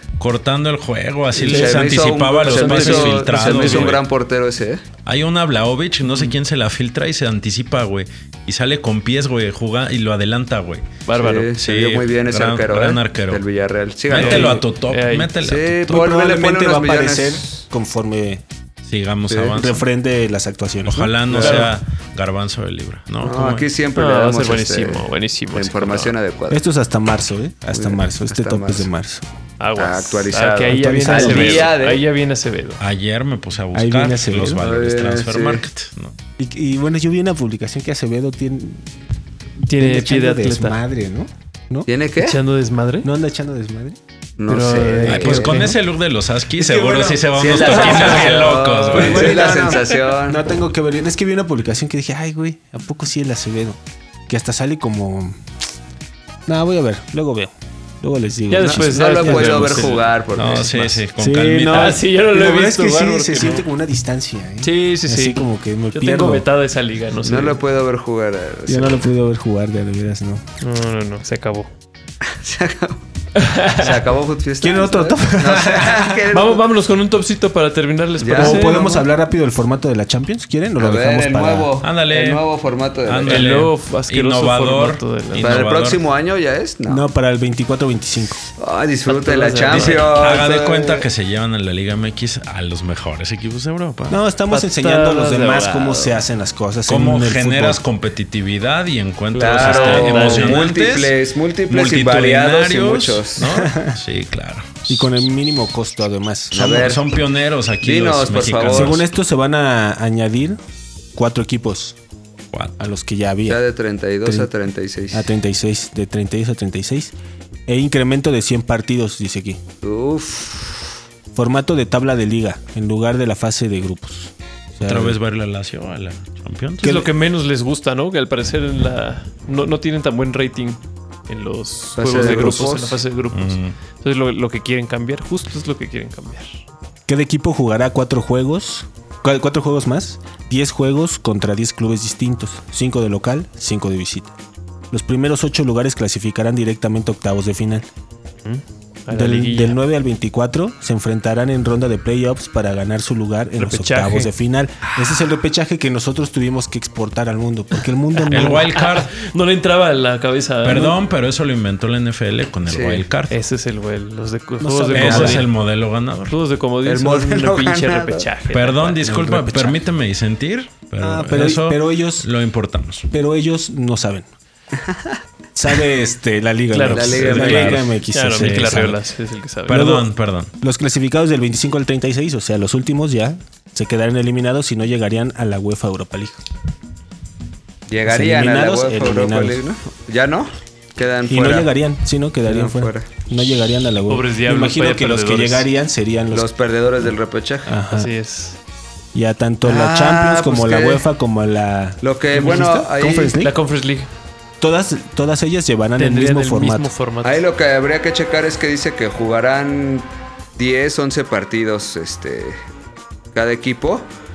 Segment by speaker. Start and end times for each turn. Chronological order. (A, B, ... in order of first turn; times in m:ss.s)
0:00.2-0:04.0 A
0:01.3-0:04.8 B
0:01.4-0:04.0 C
0:05.0-0:10.8 A
0:11.0-0:11.5 C
0:11.2-0:14.6 B
0:11.6-0:13.4 A
0:14.1-0:15.8 A
0:14.1-0:15.3 C
0:15.4-0:17.6 B
0:15.8-0:18.4 D
0:18.8-0:19.8 A
0:19.3-0:19.6 B
0:19.5-0:21.7 D
0:20.8-0:23.7 A
0:21.4-0:21.7 C
0:23.2-0:26.6 B
0:23.9-0:26.1 C
0:26.5-0:29.2 D
0:27.7-0:28.9 B
0:29.6-0:32.8 C
0:29.8-0:32.0 B
0:30.7-0:31.7 D
0:32.8-0:36.2 A
0:33.7-0:34.6 D
0:34.6-0:35.6 B
0:36.4-0:38.9 D
0:39.6-0:40.8 C
0:39.7-0:41.9 D
0:41.9-0:42.4 B
0:42.2-0:43.1 C
0:43.0-0:44.0 D
0:44.4-0:45.7 B
0:44.5-0:45.8 C
0:45.0-0:49.4 A
0:46.5-0:47.4 D
0:47.3-0:50.5 B
0:47.6-0:48.4 C
0:48.9-0:55.4 D
0:56.5-1:00.0 D
0:58.5-1:00.1 C
0:58.6-1:01.0 B
1:00.3-1:02.0 A
1:01.2-1:06.5 D
1:01.7-1:03.6 C
1:04.6-1:07.6 C
1:07.2-1:09.0 B
1:08.7-1:10.4 D
1:10.6-1:11.7 C
1:12.3-1:13.0 B
1:13.4-1:14.0 C
1:13.7-1:16.7 B
1:14.6-1:16.3 D
1:16.3-1:19.1 C
1:18.2-1:18.9 B
1:18.2-1:21.7 D
1:20.8-1:23.6 B
1:21.8-1:22.4 A
1:23.0-1:26.0 A
1:23.2-1:25.6 C
1:25.4-1:27.0 B
1:26.8-1:28.4 D
1:28.6-1:31.0 B
1:29.0-1:30.2 C
1:29.7-1:34.2 A
1:34.1-1:37.8 D
1:34.5-1:36.2 C
1:36.9-1:41.2 A
1:39.3-1:43.5 B
1:39.6-1:40.7 C
1:41.7-1:45.2 A
1:43.5-1:44.0 D
1:44.9-1:46.8 D
1:46.5-1:47.1 B
1:46.5-1:49.1 A
1:47.8-1:49.0 B
1:48.6-1:50.6 D
1:51.1-1:52.0 D
1:52.8-1:53.6 D
1:53.4-1:55.3 B
1:54.2-1:54.5 D
1:55.1-1:57.1 D
1:57.7-1:59.6 D
1:59.8-2:00.9 B
2:01.3-2:05.2 D
2:04.8-2:07.1 A
2:06.8-2:16.6 C
2:11.9-2:13.0 B
2:12.1-2:12.6 D
2:13.3-2:13.8 A
2:17.1-2:24.3 D
2:24.9-2:27.9 D
2:28.4-2:29.8 C
2:29.1-2:38.8 D
2:33.6-2:34.3 C
2:38.2-2:41.0 C
2:38.3-2:39.1 A
2:40.6-2:43.4 A
2:42.7-2:43.0 B
2:43.3-2:45.5 C
2:44.6-2:45.4 D
2:44.9-2:46.4 A
2:46.3-2:49.3 C
2:46.8-2:48.3 B
2:48.5-2:53.1 A
2:49.0-2:49.8 D
2:51.0-2:52.3 D
2:53.1-2:54.3 D
2:55.5-2:59.0 D
2:56.7-2:59.8 C
2:56.8-2:57.8 B
2:57.2-2:59.0 A
2:59.7-3:00.5 A
2:59.7-3:06.4 D
3:07.9-3:11.7 B
3:08.0-3:09.6 D
3:11.3-3:16.5 D
3:12.5-3:13.1 B
3:14.1-3:15.7 C
3:16.3-3:17.8 B
3:17.6-3:18.1 D
3:17.9-3:18.6 C
3:19.1-3:23.5 D
3:19.6-3:21.0 B
3:22.0-3:23.4 B
3:23.4-3:24.1 C
3:24.6-3:26.9 D
3:26.0-3:27.4 C
3:27.2-3:32.6 B
3:33.3-3:34.1 B